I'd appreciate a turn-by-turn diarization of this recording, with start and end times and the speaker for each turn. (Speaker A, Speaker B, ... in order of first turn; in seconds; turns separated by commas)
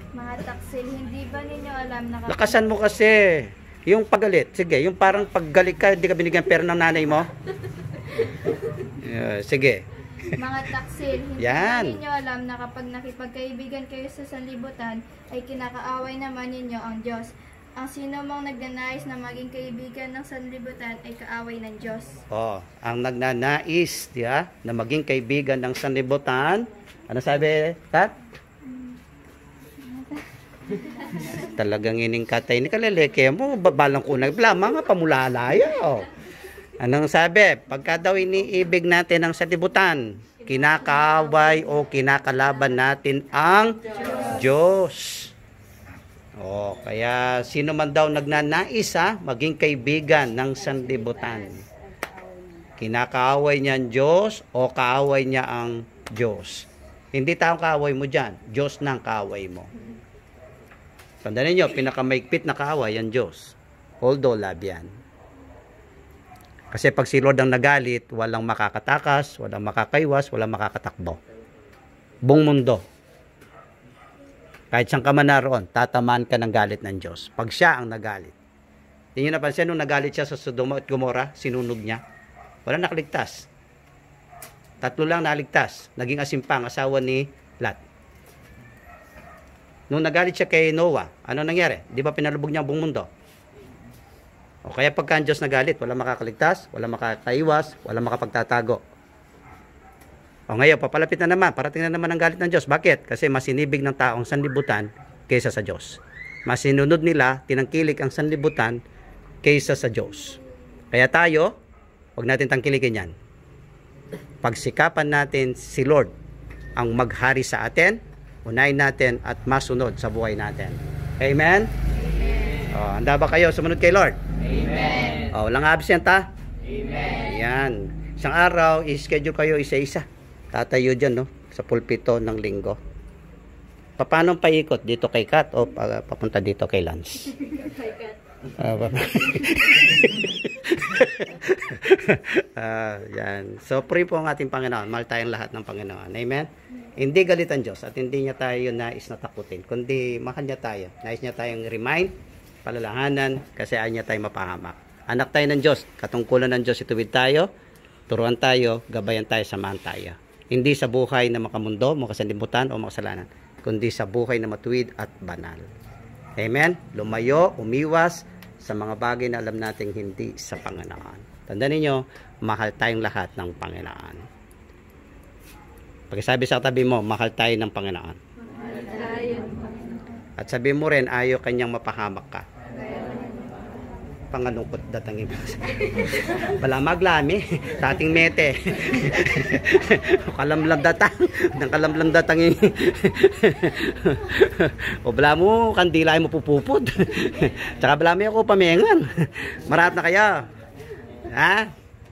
Speaker A: 0.1-2.6, Speaker B: 2.3-7.3, Speaker B: 8.9-10.7, Speaker A: 10.3-22.2, Speaker B: 11.4-12.0, Speaker B: 22.3-28.1, Speaker B: 31.3-36.1, Speaker B: 36.8-45.3, Speaker B: 46.4-51.6, Speaker A: 51.9-52.7, Speaker B: 52.8-59.7, Speaker B: 61.2-64.9, Speaker B: 66.7-71.2, Speaker B: 72.2-72.8, Speaker B: 74.7-78.3, Speaker B: 79.2-82.0, Speaker B: 82.7-83.5, Speaker B: 84.8-87.8, Speaker B: 89.9-93.1, Speaker B: 94.7-98.8, Speaker B: 100.5-108.8, Speaker B: 109.4-110.4, Speaker B: 110.9-111.5, Speaker B: 112.2-113.1, Speaker B: 114.4-116.1, Speaker B: 116.8-121.7, Speaker B: 122.7-124.2, Speaker B: 125.2-126.3, Speaker B: 126.9-132.8, Speaker B: 134.0-137.3, Speaker B: 138.6-152.1, Speaker B: 152.7-157.5, Speaker B: 158.1-165.6, Speaker B: 166.4-174.3, Speaker B: 176.1-178.2, Speaker A: 179.0-179.5, Speaker B: 180.4-182.4, Speaker B: 184.3-200.5, Speaker B: 201.3-201.7